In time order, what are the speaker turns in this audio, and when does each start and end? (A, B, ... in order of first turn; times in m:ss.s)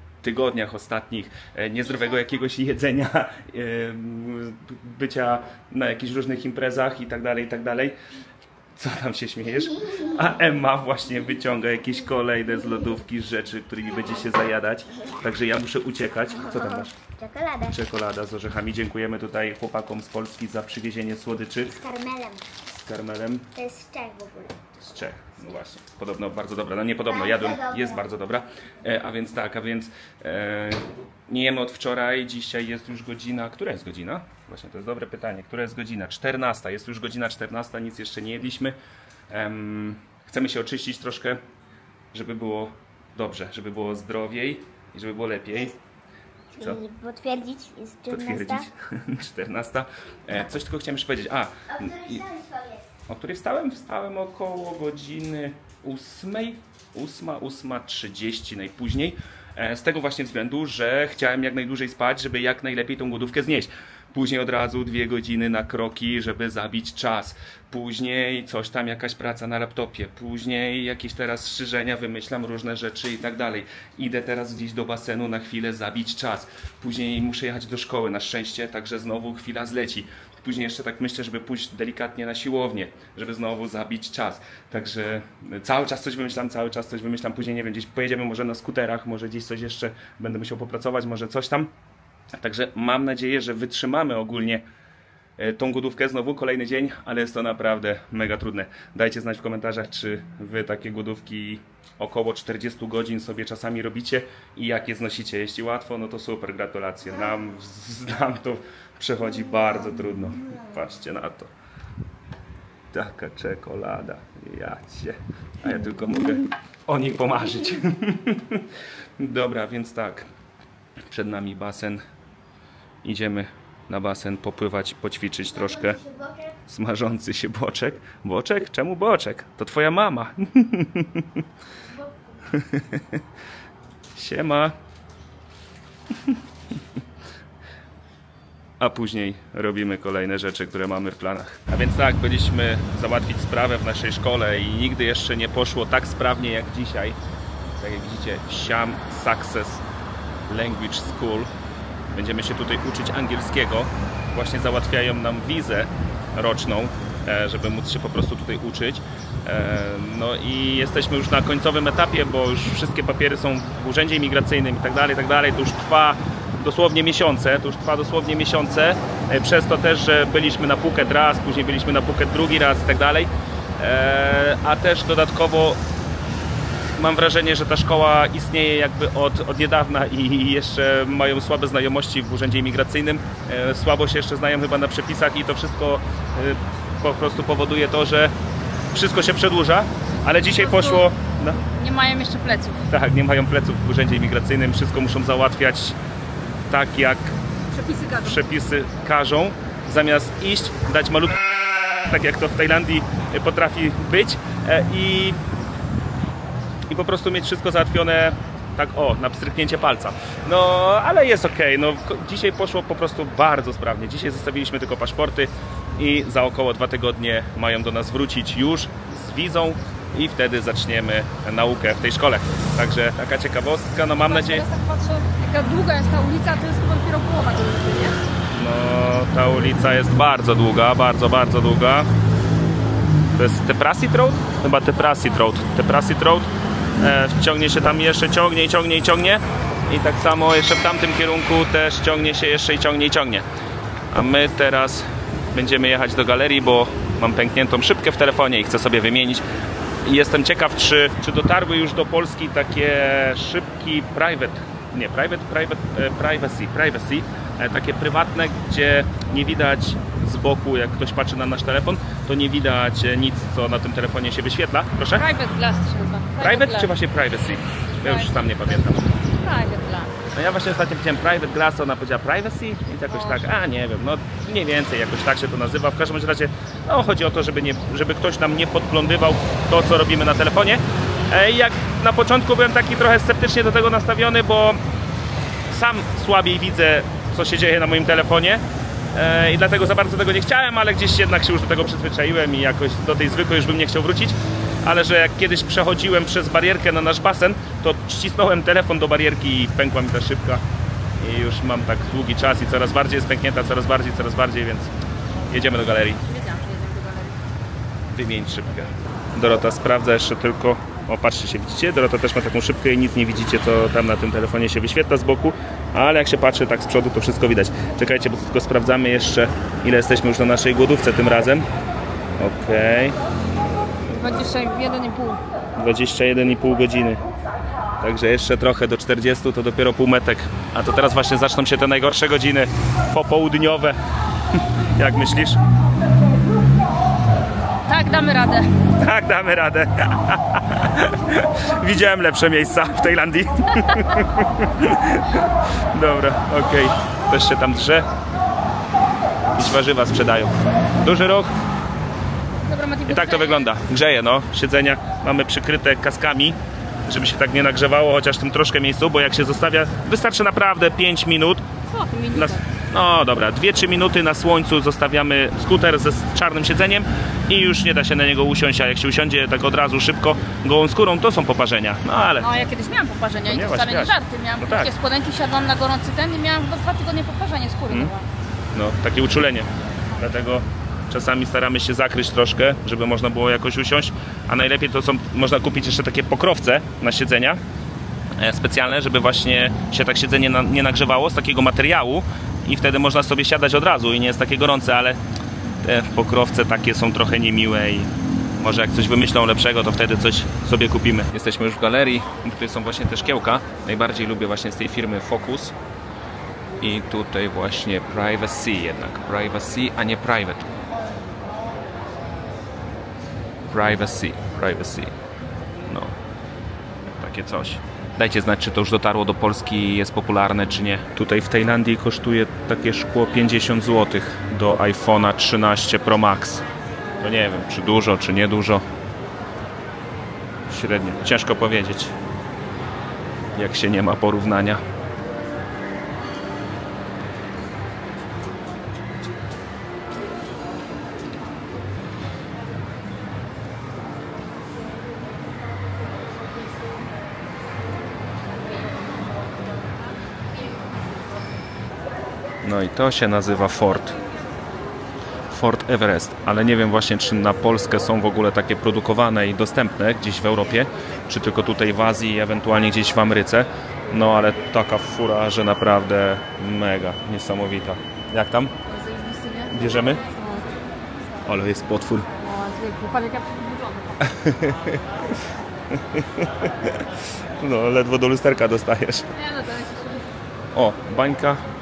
0:00.2-0:08.0 A
0:08.7-0:17.0 A
0:16.5-0:17.7 B
0:17.6-0:21.8 A
0:21.8-0:22.4 B
0:22.7-0:23.5 A
0:23.5-0:24.6 B
0:24.7-0:38.8 A
0:27.1-0:27.9 B
0:39.3-0:41.4 A
0:42.1-0:45.8 A
0:46.5-0:48.6 B
0:48.1-0:52.2 A
0:51.7-0:52.8 B
0:53.1-1:31.7 A
1:32.3-1:34.6 A
1:35.4-1:51.5 A
1:52.9-2:00.3 A
2:01.1-2:02.0 A
2:03.0-2:06.0 A
2:05.8-2:06.5 B
2:06.6-2:11.4 A
2:12.5-2:13.2 A
2:14.1-2:14.7 A
2:18.8-2:27.2 A
2:27.8-2:29.8 A
2:30.5-2:31.5 A
2:32.1-2:55.8 A
2:57.0-3:08.3 A
3:08.9-3:11.6 A
3:10.2-3:11.1 C
3:11.6-3:12.9 C
3:12.9-3:16.0 A
3:16.7-3:17.4 A
3:17.7-3:18.4 C
3:18.2-3:25.4 A
3:26.9-3:44.6 A
3:44.2-3:48.2 C
3:48.5-3:52.1 A
3:53.3-4:03.4 A
4:04.1-4:09.4 A
4:10.0-4:25.3 A
4:25.1-4:26.9 C
4:26.4-4:29.1 A
4:28.0-4:30.1 C
4:30.3-4:44.8 A
4:33.1-4:33.5 C
4:45.7-4:48.6 A
4:49.1-5:00.6 A
5:01.2-5:04.9 A
5:05.5-5:06.2 A
5:06.2-5:07.4 C
5:08.1-5:21.6 A
5:22.4-5:23.2 A
5:24.0-5:25.4 C
5:25.8-5:27.2 A
5:28.0-5:34.0 A
5:34.9-5:35.6 A
5:37.8-5:38.7 C
5:39.0-5:48.1 A
5:49.5-5:51.5 A
5:52.6-5:53.8 C
5:53.0-6:01.6 A
6:01.8-6:02.6 C
6:02.3-6:12.6 A
6:12.4-6:18.3 C
6:13.4-6:14.9 A
6:18.7-6:27.6 A
6:28.4-6:35.2 A
6:35.8-6:45.7 A
6:46.8-6:50.7 A
6:53.7-6:55.1 A
6:55.9-6:56.1 A
6:57.2-7:06.6 A
7:07.2-7:08.8 A
7:10.7-7:12.1 A
7:13.5-7:14.8 A
7:32.6-7:34.2 A
7:35.5-7:48.7 A
7:48.8-7:50.7 C
7:49.7-7:50.2 A
7:51.4-7:52.3 A
7:52.4-7:54.3 C
7:54.2-7:55.0 A
7:55.9-7:59.3 A
7:59.3-8:00.3 C
8:00.7-8:01.6 A